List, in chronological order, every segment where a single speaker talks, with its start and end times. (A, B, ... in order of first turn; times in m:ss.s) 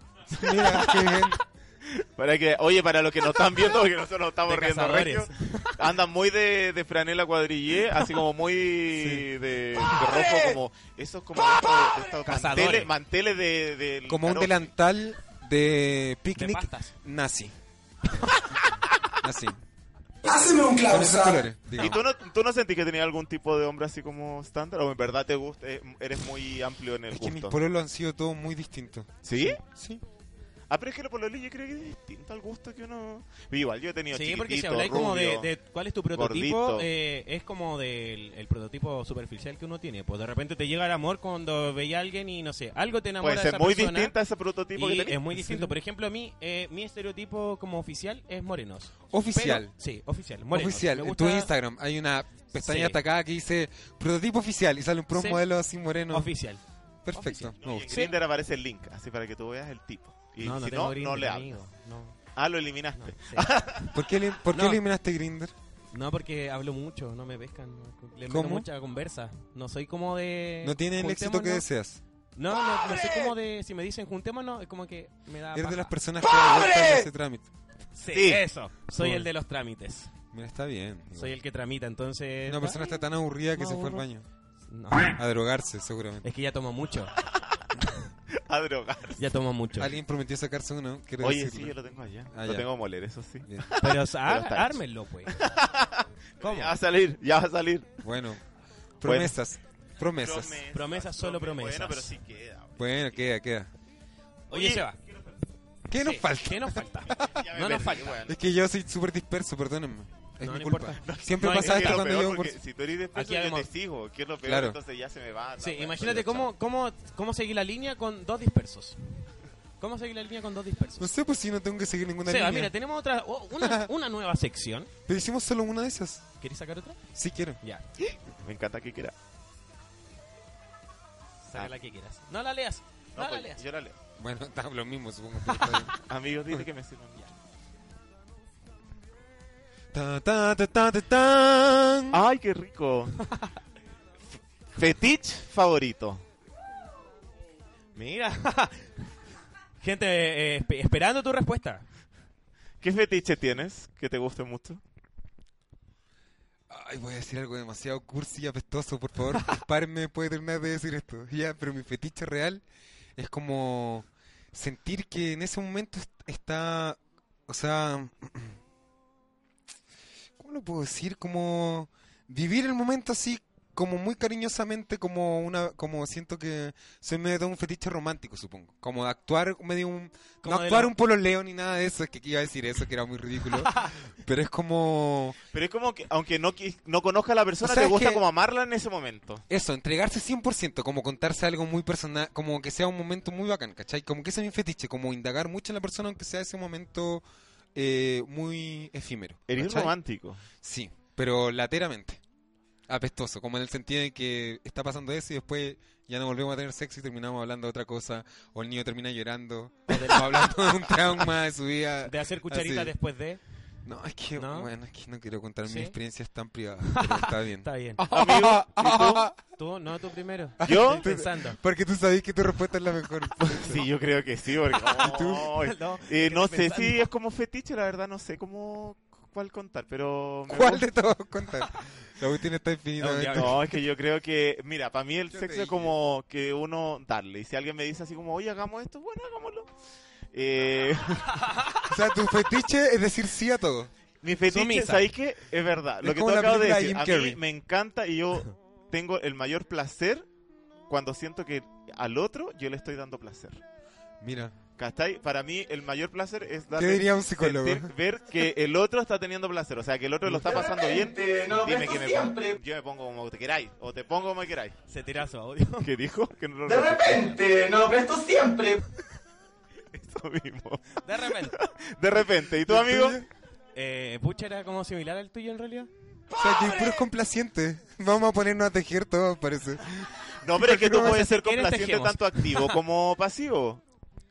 0:00.3-0:01.4 A
0:00.4-0:01.2 B
0:01.8-0:14.7 C
0:04.5-0:05.8 B
0:08.9-0:09.3 A
0:12.2-0:12.9 B
0:14.1-0:17.6 A
0:16.4-0:16.9 B
0:19.1-0:19.6 A
0:20.3-0:22.0 A
0:20.5-0:21.0 D
0:21.8-0:27.6 C
0:27.1-0:30.0 A
0:29.2-0:29.6 C
0:30.7-0:35.5 C
0:34.1-0:44.1 B
0:36.1-0:36.9 C
0:43.2-0:45.2 C
0:44.8-0:51.5 B
0:45.3-0:45.7 A
0:49.1-0:49.7 A
0:50.5-0:56.3 A
0:52.6-0:53.0 B
0:55.1-0:55.4 B
0:56.1-0:56.6 B
0:57.0-0:58.0 A
0:57.1-0:58.2 B
0:57.6-1:01.6 C
1:00.4-1:02.2 B
1:02.4-1:04.0 C
1:03.0-1:03.5 B
1:03.9-1:05.5 A
1:04.5-1:04.8 B
1:05.9-1:11.7 B
1:08.3-1:08.7 A
1:10.6-1:12.0 A
1:12.4-1:15.9 B
1:15.5-1:17.5 A
1:18.0-1:20.1 B
1:18.1-1:18.4 C
1:19.0-1:19.3 A
1:20.3-1:21.4 A
1:21.1-1:22.9 B
1:22.5-1:24.3 A
1:23.6-1:24.1 B
1:24.7-1:25.2 B
1:25.1-1:26.3 A
1:26.2-1:27.2 B
1:28.3-1:29.2 C
1:29.2-1:30.0 B
1:29.8-1:31.8 A
1:31.2-1:38.0 C
1:32.3-1:32.7 A
1:33.4-1:33.8 A
1:33.8-1:35.4 B
1:36.4-1:36.8 B
1:38.0-1:38.4 A
1:39.0-1:40.6 A
1:39.0-1:39.4 C
1:40.2-1:43.2 C
1:40.7-1:42.2 B
1:42.8-1:43.7 A
1:44.5-1:45.0 B
1:44.5-1:45.4 C
1:45.9-1:47.4 A
1:46.0-1:48.3 B
1:47.1-1:48.4 C
1:48.2-1:52.6 A
1:50.4-1:52.1 B
1:51.0-1:56.5 C
1:53.2-1:53.7 B
1:54.4-1:54.8 A
1:55.6-2:01.1 B
2:01.0-2:02.7 A
2:02.2-2:04.9 B
2:03.6-2:03.9 A
2:05.1-2:06.3 A
2:06.4-2:07.0 B
2:07.1-2:07.6 A
2:08.4-2:09.2 C
2:11.4-2:13.6 B
2:13.2-2:14.0 C
2:14.2-2:16.0 A
2:15.5-2:15.8 B
2:16.0-2:17.3 C
2:19.9-2:22.2 A
2:22.1-2:23.2 C
2:23.3-2:23.5 B
2:24.8-2:26.2 C
2:28.0-2:29.1 B
2:29.8-2:31.8 B
2:32.8-2:34.8 C
2:36.7-2:42.6 A
2:43.2-2:48.6 A
2:50.4-3:05.4 A
3:00.4-3:00.9 B
3:03.6-3:03.9 B
3:05.5-3:09.4 C
3:07.6-3:08.2 A
3:09.5-3:17.2 A
3:17.8-3:20.0 A
3:19.5-3:20.4 C
3:20.6-3:22.2 A
3:22.9-3:32.9 A
3:29.9-3:30.9 B
3:32.0-3:33.4 B
3:33.8-3:39.4 A
3:34.4-3:34.7 B
3:35.6-3:36.0 B
3:36.9-3:38.0 B
3:38.1-3:39.3 C
3:39.6-3:41.6 B
3:40.6-3:43.9 A
3:40.6-3:41.1 C
3:43.4-3:50.9 C
3:44.8-3:47.1 B
3:45.0-3:45.6 A
3:50.5-3:53.8 A
3:53.0-3:53.6 B
3:53.3-3:59.7 C
3:55.3-3:55.9 A
4:00.3-4:01.5 C
4:01.3-4:01.8 B
4:01.9-4:03.9 A
4:04.2-4:10.3 C
4:04.5-4:05.1 B
4:06.0-4:07.4 A
4:10.9-4:13.6 C
4:14.2-4:14.6 A
4:14.8-4:24.8 C
4:16.7-4:17.9 A
4:20.5-4:22.6 D
4:24.9-4:25.9 B
4:25.8-4:27.4 C
4:26.7-4:28.8 D
4:29.9-4:33.2 C
4:31.0-4:31.6 B
4:32.7-4:33.3 A
4:33.8-4:35.9 B
4:36.3-4:41.2 A
4:40.4-4:43.8 C
4:40.9-4:42.8 B